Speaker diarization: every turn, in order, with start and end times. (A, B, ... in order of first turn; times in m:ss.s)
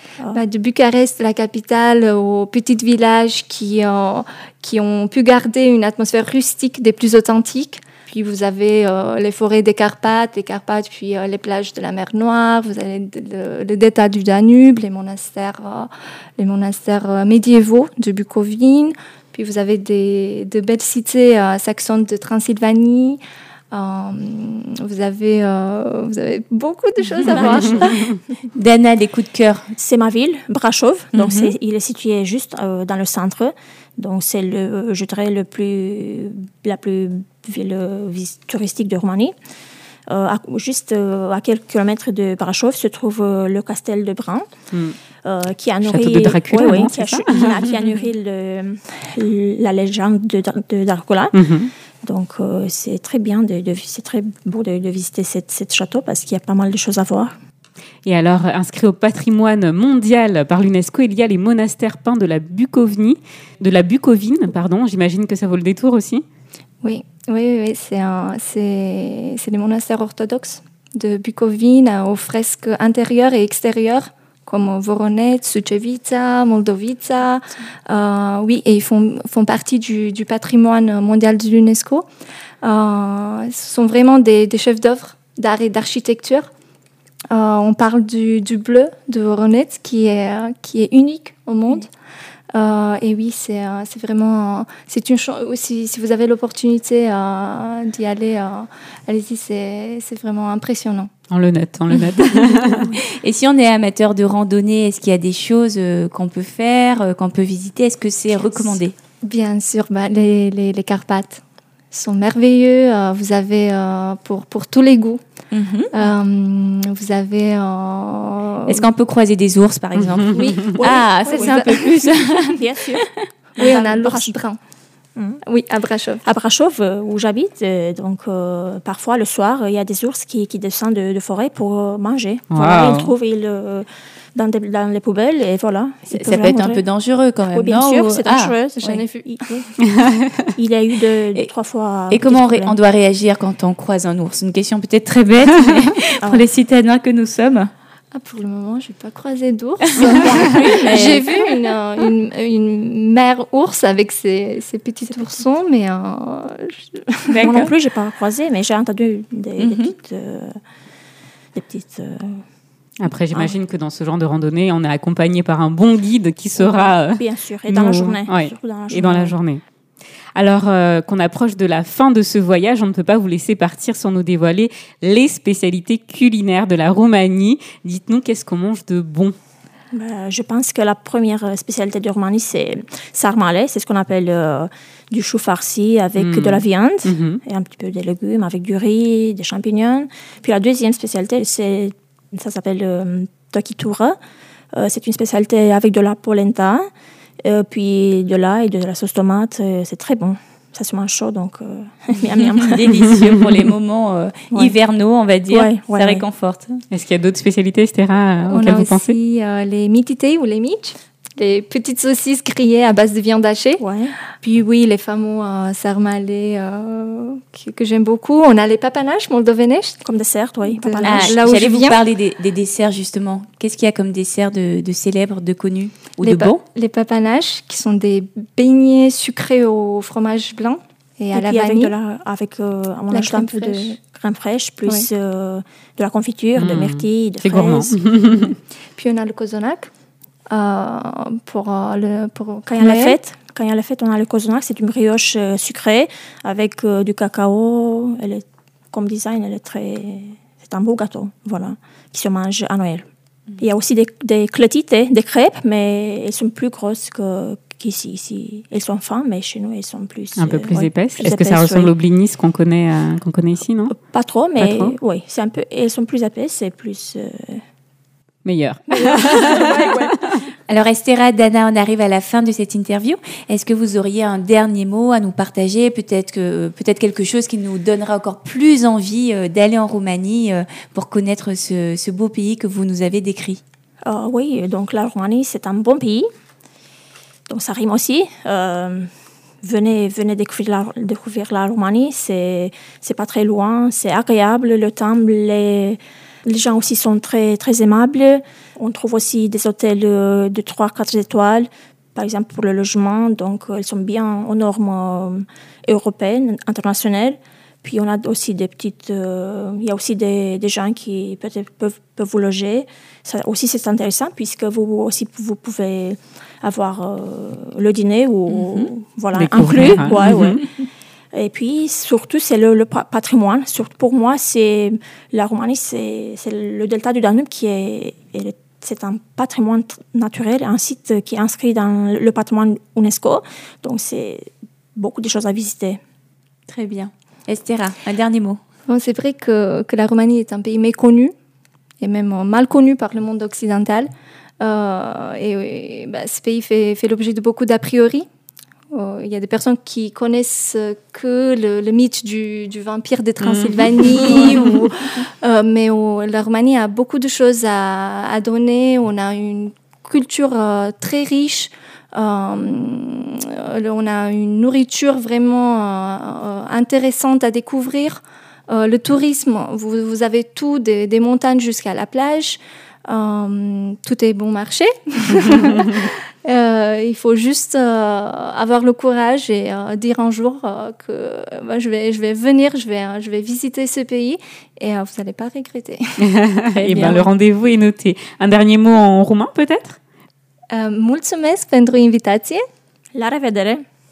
0:00.3-0:23.2 A
0:23.7-0:28.1 A
0:27.3-0:27.8 B
0:28.5-0:29.7 C
0:29.8-0:39.3 B
0:31.1-0:31.5 C
0:40.1-0:44.4 B
0:45.2-0:51.3 B
0:45.8-0:47.4 D
0:51.3-0:51.7 D
0:52.0-0:57.3 B
0:58.0-1:06.2 D
1:06.8-1:22.0 A
1:22.6-1:26.5 A
1:27.3-1:31.9 A
1:32.5-1:41.1 A
1:41.3-1:42.8 D
1:43.0-1:48.9 C
1:49.2-1:55.2 A
1:55.5-1:55.9 C
1:55.9-1:58.8 A
1:58.7-2:02.6 C
2:00.3-2:04.3 B
2:01.2-2:01.7 A
2:03.6-2:04.6 A
2:05.4-2:06.2 A
2:06.2-2:16.8 B
2:12.5-2:13.1 D
2:16.1-2:19.0 C
2:17.5-2:19.7 B
2:18.8-2:19.3 A
2:20.6-2:22.7 B
2:22.1-2:27.7 C
2:26.2-2:26.4 B
2:28.1-2:37.5 A
2:30.0-2:31.2 C
2:30.4-2:31.4 B
2:37.3-2:37.7 C
2:37.4-2:40.5 B
2:39.6-2:39.9 C
2:41.5-2:42.4 B
2:43.0-2:49.6 D
2:43.3-2:43.6 B
2:46.6-2:49.4 B
2:50.3-2:59.3 D
2:59.9-3:14.2 B
3:06.2-3:07.4 D
3:14.7-3:16.8 B
3:17.4-3:22.9 B
3:22.3-3:26.8 C
3:25.5-3:26.2 B
3:26.9-3:29.1 D
3:28.5-3:33.8 A
3:33.8-3:34.2 B
3:34.4-3:40.0 A
3:40.0-3:41.5 B
3:40.7-3:42.0 A
3:41.0-3:46.6 C
3:46.2-3:51.9 A
3:51.3-3:58.0 B
3:53.1-3:54.0 A
3:56.6-3:58.6 D
3:59.0-3:59.9 A
4:00.5-4:03.2 A
4:02.7-4:13.0 B
4:13.6-4:21.9 B
4:20.4-4:23.9 D
4:23.9-4:27.6 B
4:24.6-4:24.9 D
4:28.4-4:30.1 D
4:28.9-4:30.1 B
4:30.7-4:43.6 C
4:44.0-4:46.3 B
4:47.5-4:49.1 B
4:49.6-5:20.6 B
5:19.3-5:20.6 D
5:21.3-5:36.0 B
5:36.7-5:38.6 C
5:38.9-5:41.3 A
5:42.0-5:44.1 A
5:44.6-5:48.2 A
5:48.9-6:26.1 A
5:53.4-5:54.8 D
6:26.2-6:30.0 D
6:26.9-6:27.2 A
6:30.7-6:32.6 A
6:33.1-6:33.8 B